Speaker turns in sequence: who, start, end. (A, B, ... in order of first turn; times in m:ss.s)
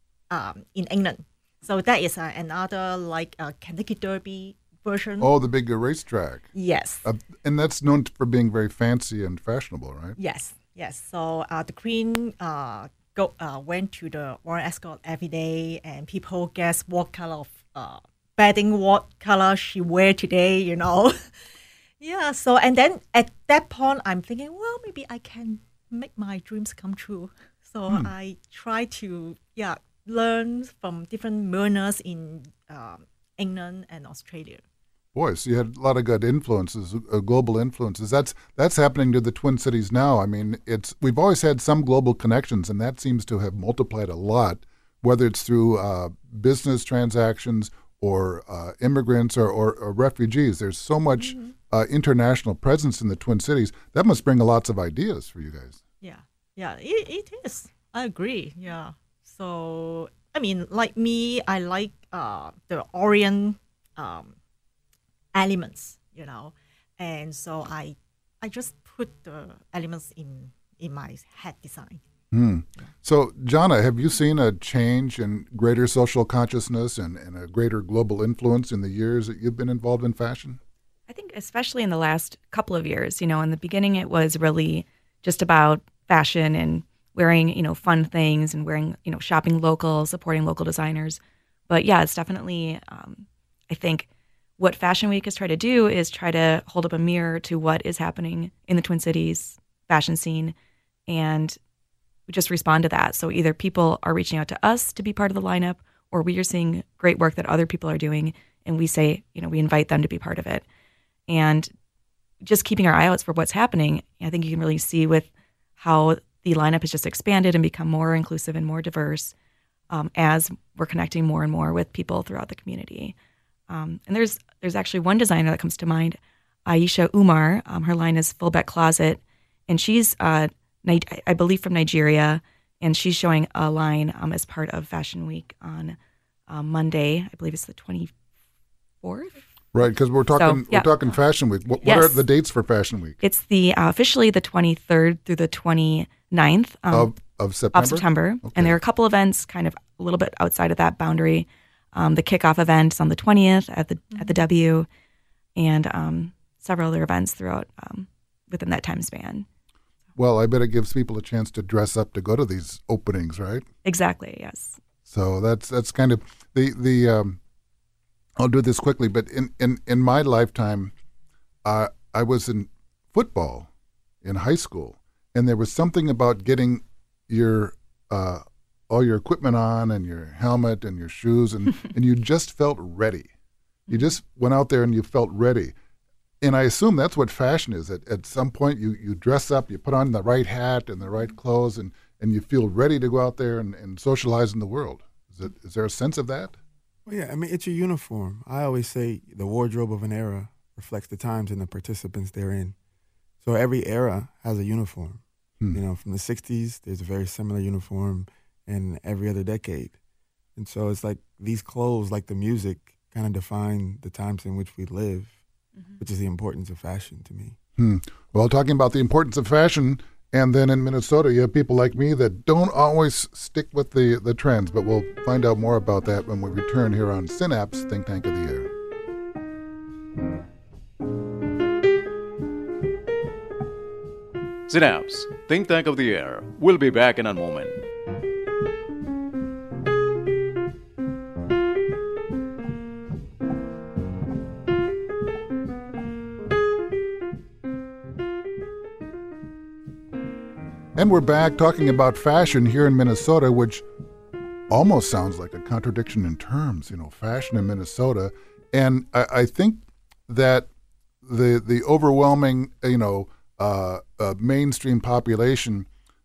0:00.3-0:05.3 A
0:05.2-0:06.5 B
0:06.5-0:07.1 A
0:07.0-0:10.2 B
0:10.2-0:21.4 A
0:22.0-0:34.6 A
0:35.2-0:55.8 B
0:51.2-0:51.5 A
0:56.0-1:04.4 A
1:05.3-1:12.0 A
1:12.3-1:20.6 B
1:21.1-1:34.1 C
1:34.6-1:40.5 C
1:41.1-1:41.6 C
1:42.3-1:50.6 C
1:51.3-1:51.7 C
1:52.4-1:59.3 C
1:59.9-2:03.2 C
2:03.7-2:16.0 C
2:16.5-2:18.1 C
2:19.0-2:19.5 C
2:19.7-2:23.2 B
2:20.4-2:21.0 C
2:21.8-2:22.2 C
2:23.2-2:27.1 C
2:26.9-2:28.8 B
2:27.7-2:34.9 C
2:35.6-2:39.5 C
2:40.2-2:43.6 B
2:43.8-2:44.8 C
2:45.1-2:47.4 B
2:48.4-2:50.9 B
2:51.6-2:53.7 B
2:54.2-3:03.3 B
3:03.9-3:05.8 B
3:06.4-3:16.6 B
3:17.1-3:22.8 D
3:23.4-3:25.2 D
3:25.7-3:30.0 D
3:30.6-3:35.4 D
3:36.0-3:37.6 D
3:37.8-3:48.7 B
3:54.7-3:57.8 E
4:11.0-4:13.8 B
4:14.7-4:20.7 B
4:21.2-4:25.9 B